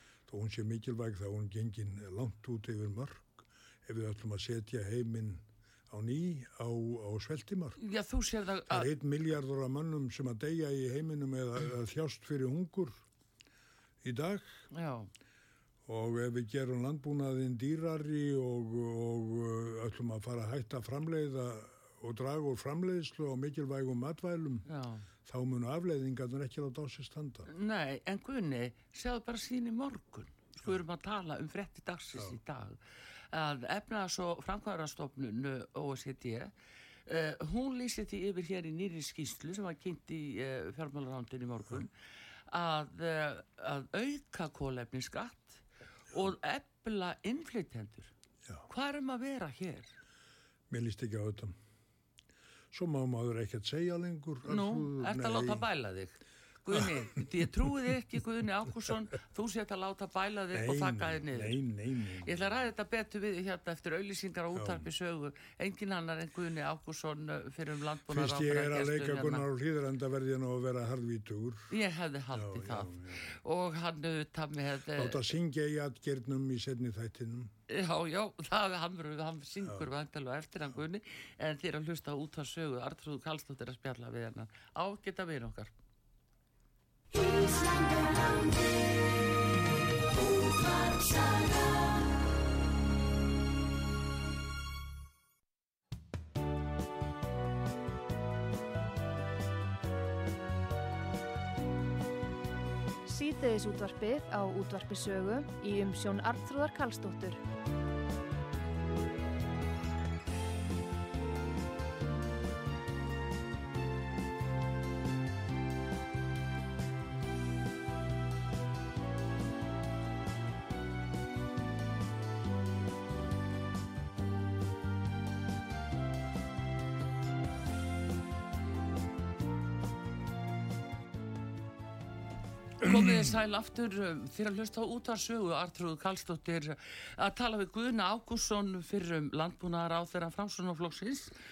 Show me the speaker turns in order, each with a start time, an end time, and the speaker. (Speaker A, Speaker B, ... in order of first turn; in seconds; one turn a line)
Speaker A: 0.3-7.8
Speaker B: 7.8-8.9
Speaker A: 8.7-13.0
Speaker A: 14.0-14.7
Speaker B: 14.7-15.1
Speaker A: 15.8-24.6
Speaker B: 24.7-25.1
Speaker A: 25.2-27.5
Speaker B: 27.4-36.5
Speaker B: 37.0-41.9
Speaker B: 42.5-48.1
Speaker B: 48.7-49.9
Speaker A: 50.7-51.5
Speaker A: 52.7-55.6
Speaker B: 54.5-61.6
Speaker A: 60.5-62.5
Speaker B: 62.2-69.5
Speaker A: 64.5-64.9
Speaker A: 68.1-71.7
Speaker B: 71.7-75.2
Speaker A: 72.3-73.3
Speaker A: 74.9-77.5
Speaker B: 77.7-85.7
Speaker C: 87.2-88.3
Speaker B: 90.3-91.4
Speaker C: 103.0-107.4
Speaker B: 132.8-141.3
Speaker A: 132.8-133.2